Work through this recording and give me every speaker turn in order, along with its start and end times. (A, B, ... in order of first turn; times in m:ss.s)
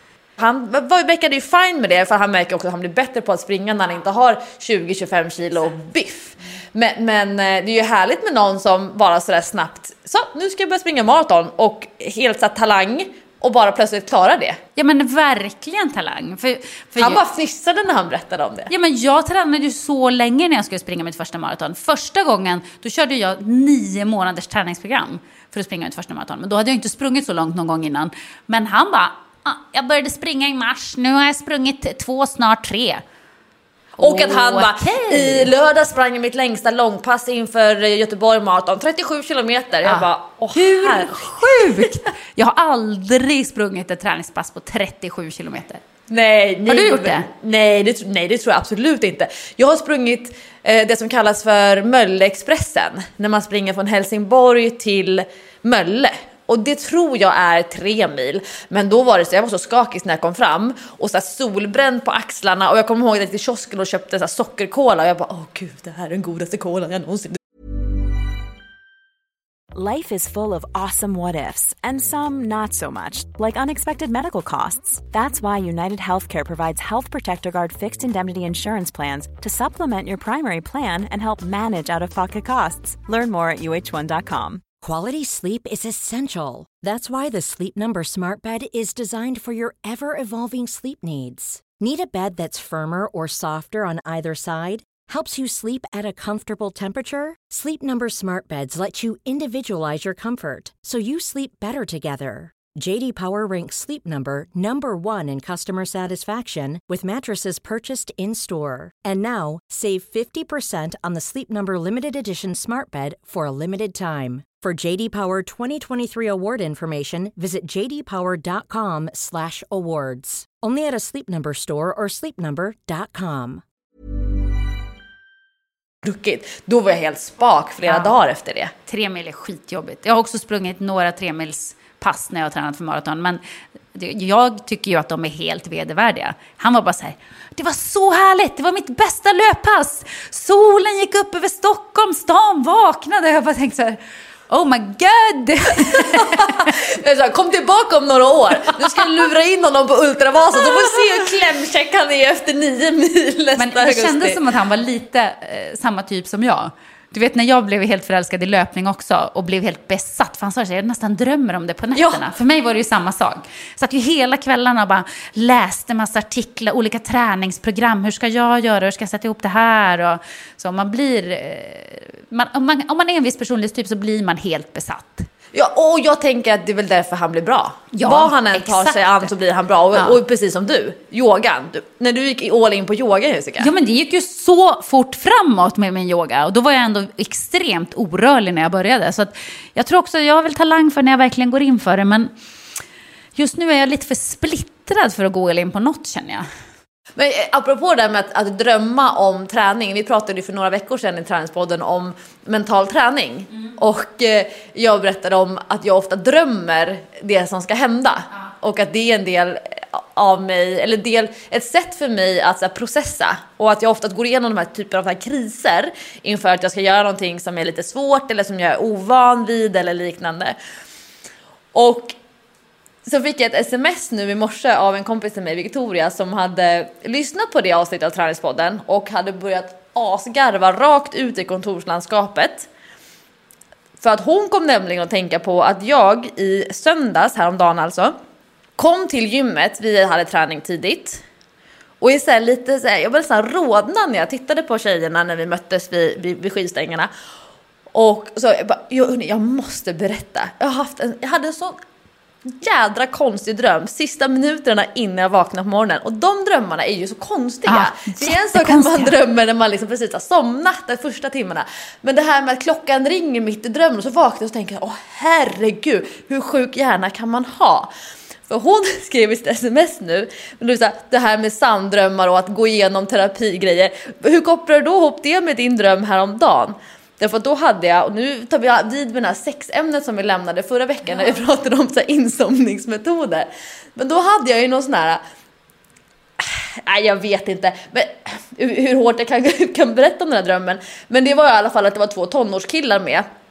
0:00.4-0:14.6 A
0:14.8-0:17.2 B
0:17.0-0:18.7 A
0:18.7-0:33.0 B
0:34.0-0:41.9 A
0:34.0-0:35.5 B
0:39.8-0:45.8 B
0:46.1-1:07.4 A
0:46.7-0:47.3 B
1:09.7-1:24.6 C
1:24.8-2:03.6 D
2:06.0-2:08.7 A
2:07.8-2:08.1 B
2:08.9-2:13.4 B
2:13.9-2:24.0 B
2:24.5-2:26.7 B
2:25.8-2:34.4 A
2:33.6-2:55.3 B
2:41.9-2:42.2 A
2:55.5-3:03.7 A
2:57.9-2:59.3 B
3:03.6-3:12.3 B
3:13.4-3:16.4 B
3:17.2-3:40.6 A
3:41.7-3:42.2 A
3:43.0-3:52.7 A
3:54.0-3:58.1 A
3:58.8-4:01.2 A
4:02.0-4:07.1 A
4:07.9-4:11.8 A
4:12.4-4:27.9 A
4:17.6-4:19.1 B
4:28.5-4:45.2 A
4:46.4-4:53.2 A